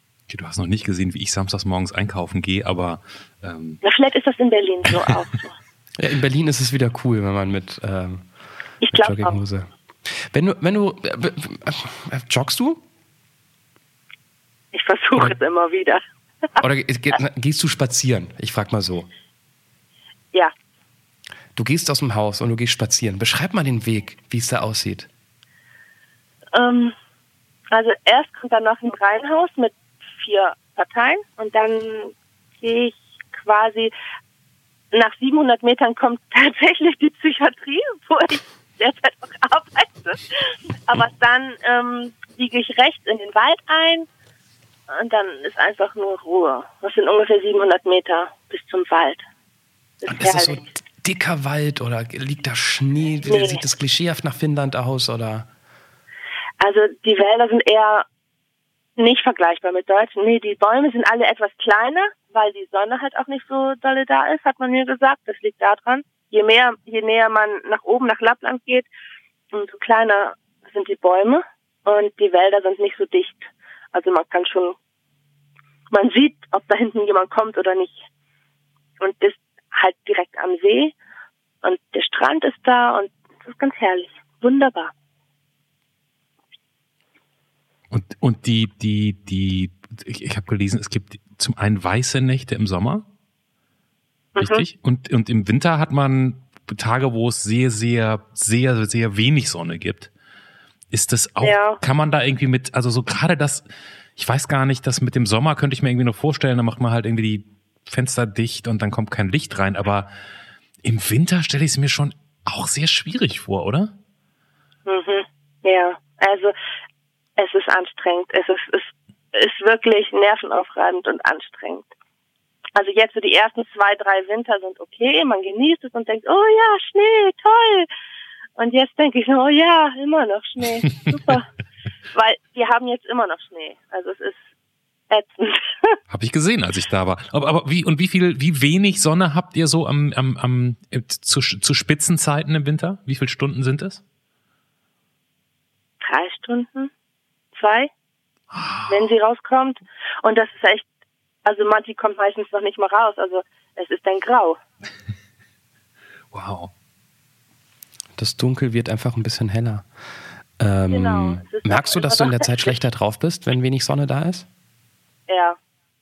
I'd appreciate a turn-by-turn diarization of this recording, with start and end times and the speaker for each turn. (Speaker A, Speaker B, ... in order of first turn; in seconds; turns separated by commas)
Speaker A: 0.3-3.8, Speaker B: 3.8-5.5, Speaker C: 6.0-8.2, Speaker B: 8.8-9.4, Speaker C: 8.9-9.7, Speaker C: 10.3-12.8, Speaker B: 14.7-16.0, Speaker C: 16.6-19.1, Speaker C: 21.6-25.1, Speaker B: 26.5-26.9, Speaker B: 27.7-33.9, Speaker B: 34.9-44.1, Speaker B: 44.9-49.2, Speaker B: 50.0-50.6, Speaker C: 50.1-55.5, Speaker B: 53.3-53.6, Speaker B: 56.6-58.1, Speaker B: 59.0-68.9, Speaker B: 69.5-74.8, Speaker B: 75.9-78.0, Speaker B: 79.0-80.9, Speaker B: 81.6-84.9, Speaker A: 87.9-93.0, Speaker B: 94.3-94.6, Speaker A: 94.4-100.1, Speaker A: 100.9-103.7, Speaker B: 101.4-101.8, Speaker A: 104.2-110.1, Speaker A: 110.8-113.9, Speaker B: 114.9-116.5, Speaker B: 117.4-121.9, Speaker B: 122.8-127.9, Speaker B: 128.6-131.5, Speaker B: 132.1-134.4, Speaker B: 135.1-136.0, Speaker A: 136.1-144.0, Speaker B: 146.0-146.9, Speaker B: 147.6-147.9, Speaker A: 148.5-149.1, Speaker B: 148.9-150.8, Speaker B: 151.4-154.6, Speaker A: 156.3-156.7, Speaker C: 158.2-159.8, Speaker C: 160.6-164.5, Speaker B: 160.9-162.8, Speaker B: 165.3-165.6